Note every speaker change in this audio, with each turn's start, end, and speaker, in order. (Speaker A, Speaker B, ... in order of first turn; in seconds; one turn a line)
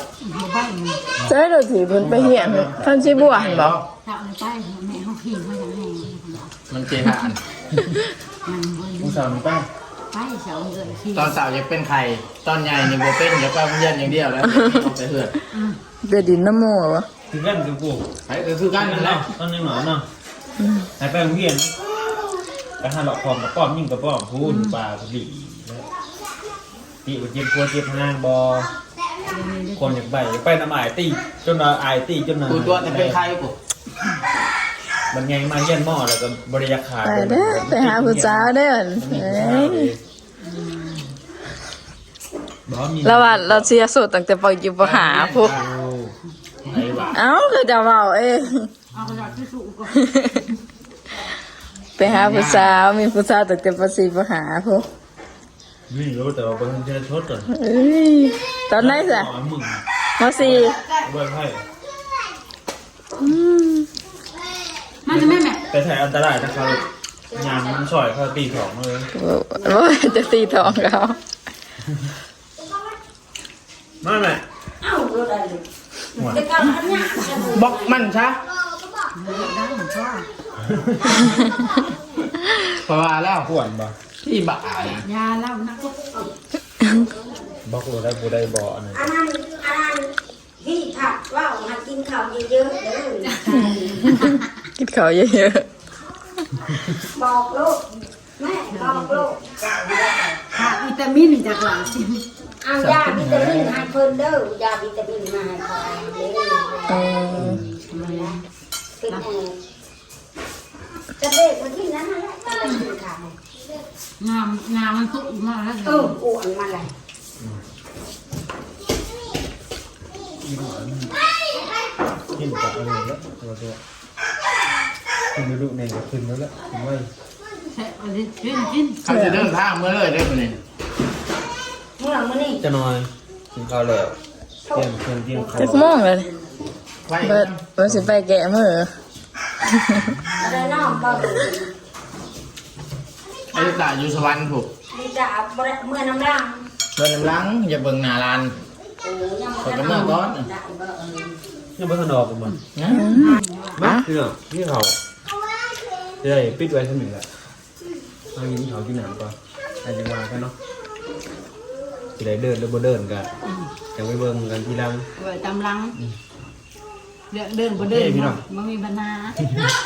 Speaker A: 0.2-1.0
Speaker B: 1.2-3.8
Speaker C: 2.0-2.8
Speaker D: 2.9-3.9
Speaker A: 4.0-6.5
Speaker D: 6.7-7.4
Speaker A: 8.5-9.4
Speaker C: 9.0-9.7
Speaker A: 10.1-11.4
Speaker D: 11.1-15.4
Speaker A: 15.5-15.8
Speaker B: 16.0-17.1
Speaker C: 17.3-18.1
Speaker D: 18.3-19.3
Speaker C: 18.8-20.1
Speaker B: 20.6-20.9
Speaker C: 21.0-21.7
Speaker C: 22.8-25.9
Speaker A: 24.4-24.8
Speaker C: 27.1-28.7
Speaker A: 29.3-30.0
Speaker C: 29.8-33.2
Speaker D: 32.5-33.5
Speaker C: 35.1-40.0
Speaker B: 37.0-39.9
Speaker A: 40.4-41.0
Speaker C: 42.7-43.7
Speaker B: 43.0-45.5
Speaker D: 44.8-45.7
Speaker C: 45.5-46.1
Speaker D: 46.7-47.2
Speaker B: 47.1-48.7
Speaker A: 48.9-50.4
Speaker B: 50.0-50.4
Speaker B: 52.0-54.9
Speaker D: 52.0-52.7
Speaker C: 55.9-57.5
Speaker B: 57.5-59.3
Speaker C: 58.7-59.8
Speaker B: 60.2-60.8
Speaker C: 60.4-61.6
Speaker B: 63.2-63.9
Speaker A: 65.1-65.6
Speaker C: 65.1-69.1
Speaker E: 67.3-67.9
Speaker B: 69.1-71.2
Speaker C: 74.0-74.4
Speaker E: 74.8-75.7
Speaker C: 76.2-76.4
Speaker E: 76.2-78.1
Speaker D: 77.4-78.4
Speaker A: 79.2-80.3
Speaker C: 80.7-81.2
Speaker D: 82.7-83.5
Speaker C: 83.5-83.9
Speaker D: 84.2-85.0
Speaker A: 85.0-86.0
Speaker C: 87.7-89.1
Speaker E: 88.9-94.0
Speaker A: 93.4-94.4
Speaker B: 94.0-95.7
Speaker E: 97.1-97.8
Speaker E: 98.4-100.5
Speaker A: 98.7-99.3
Speaker A: 100.5-102.2
Speaker E: 102.6-108.4
Speaker D: 102.8-103.9
Speaker B: 106.9-107.6
Speaker C: 107.3-107.8
Speaker A: 107.9-108.4
Speaker E: 109.0-109.6
Speaker E: 111.2-113.4
Speaker A: 114.2-116.2
Speaker E: 115.8-116.9
Speaker C: 120.4-121.1
Speaker C: 122.3-123.8
Speaker C: 125.3-127.1
Speaker A: 127.7-129.0
Speaker D: 129.1-130.6
Speaker B: 129.1-129.4
Speaker E: 132.0-132.6
Speaker C: 132.6-134.2
Speaker E: 134.7-135.9
Speaker C: 134.7-135.8
Speaker B: 135.5-136.3
Speaker D: 137.1-137.6
Speaker B: 137.2-138.9
Speaker B: 139.6-140.2
Speaker E: 140.4-141.7
Speaker D: 143.5-144.7
Speaker E: 144.9-146.6
Speaker D: 147.0-148.6
Speaker E: 149.0-151.4
Speaker D: 149.6-150.5
Speaker C: 151.8-152.6
Speaker D: 152.8-153.1
Speaker B: 152.9-154.1
Speaker A: 153.1-153.8
Speaker C: 153.8-154.9
Speaker C: 156.2-157.3
Speaker C: 158.3-160.5
Speaker C: 162.2-163.3
Speaker C: 163.9-165.1
Speaker A: 165.2-166.0
Speaker A: 167.3-169.5
Speaker C: 167.8-168.4